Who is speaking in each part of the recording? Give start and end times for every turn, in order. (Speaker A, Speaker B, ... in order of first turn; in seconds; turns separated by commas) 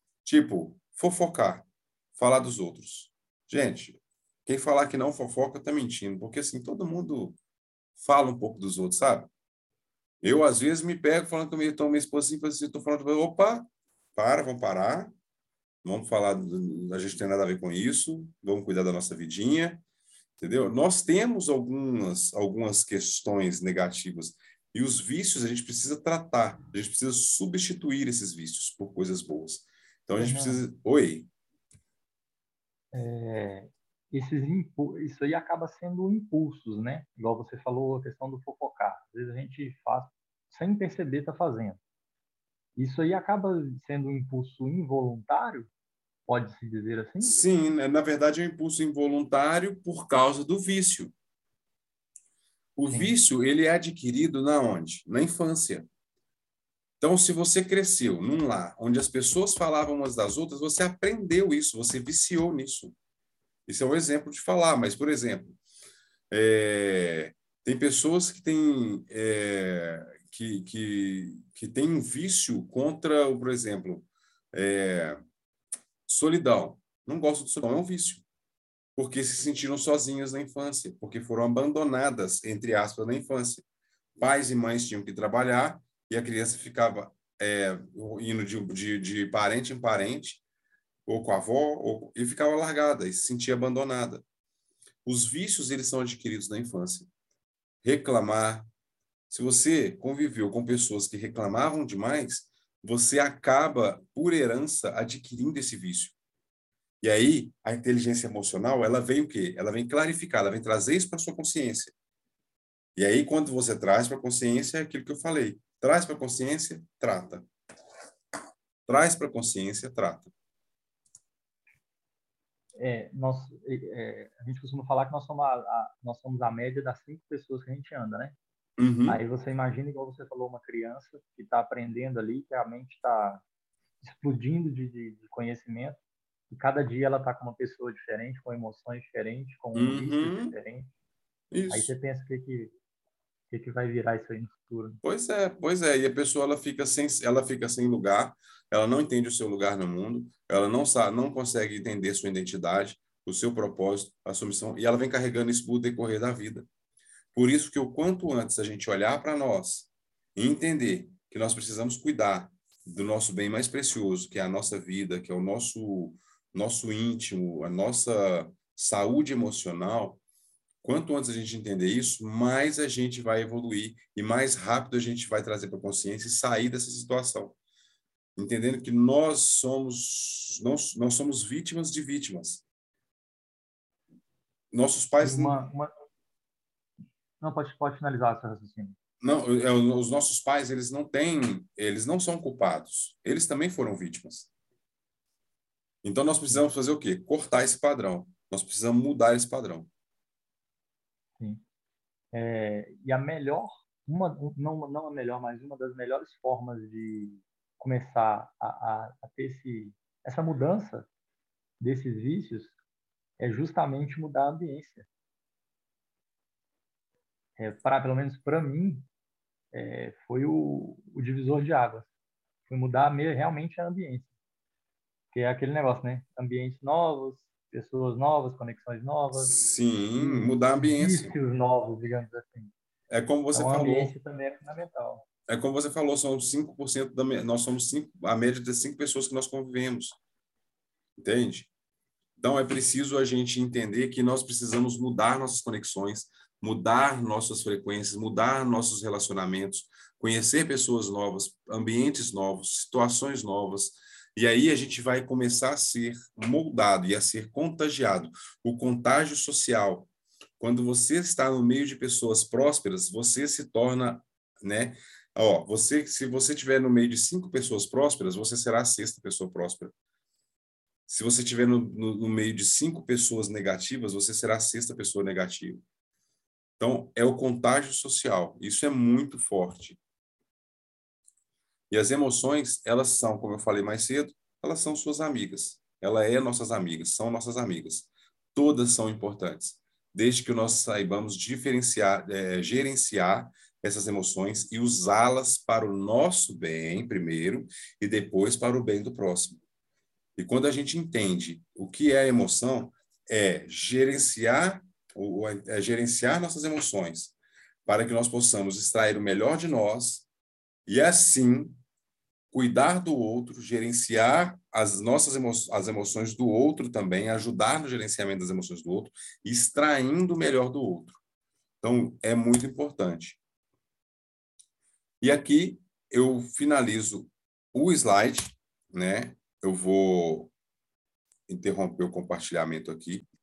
Speaker A: 0.2-7.4, Speaker A: 8.0-9.3, Speaker A: 10.2-15.1, Speaker A: 15.8-19.8, Speaker A: 20.4-31.3, Speaker B: 30.2-30.6, Speaker B: 32.9-41.8, Speaker B: 42.8-45.7, Speaker B: 46.3-47.4, Speaker A: 47.2-51.1, Speaker A: 52.8-55.9, Speaker B: 52.9-53.1, Speaker A: 57.0-62.9, Speaker A: 63.7-65.6, Speaker A: 66.3-75.2, Speaker A: 76.1-78.2, Speaker A: 79.0-83.6, Speaker A: 84.2-90.4, Speaker A: 91.0-94.2, Speaker A: 95.0-97.1, Speaker A: 97.8-98.7, Speaker A: 99.3-106.1, Speaker A: 107.0-111.9, Speaker A: 113.0-117.5, Speaker A: 118.9-120.3, Speaker B: 122.8-128.3, Speaker A: 128.8-129.2, Speaker B: 129.1-133.4, Speaker B: 134.0-140.9, Speaker A: 139.7-140.6, Speaker A: 141.5-141.9, Speaker B: 141.7-142.7, Speaker B: 143.5-145.0, Speaker A: 145.0-156.7, Speaker A: 157.3-170.2, Speaker A: 170.8-177.6, Speaker A: 178.3-182.6, Speaker A: 184.7-185.6, Speaker B: 185.2-185.9, Speaker B: 187.4-188.9, Speaker A: 189.2-194.5, Speaker A: 196.0-199.9, Speaker B: 201.4-201.6, Speaker B: 202.3-211.1, Speaker B: 211.8-212.8, Speaker B: 213.4-215.1, Speaker B: 217.6-219.1, Speaker B: 219.7-222.1, Speaker B: 222.7-224.3, Speaker B: 225.3-229.5, Speaker A: 229.3-231.3, Speaker B: 230.2-232.7, Speaker A: 233.1-234.1, Speaker B: 233.5-235.2, Speaker A: 235.5-240.2, Speaker A: 241.2-241.7, Speaker A: 242.4-269.9, Speaker A: 271.1-275.8, Speaker A: 276.8-280.0, Speaker A: 281.9-299.6, Speaker A: 300.4-307.3, Speaker A: 307.9-310.3, Speaker A: 310.9-311.8, Speaker A: 312.5-321.2, Speaker A: 321.8-323.4, Speaker A: 325.2-330.5, Speaker A: 331.5-333.3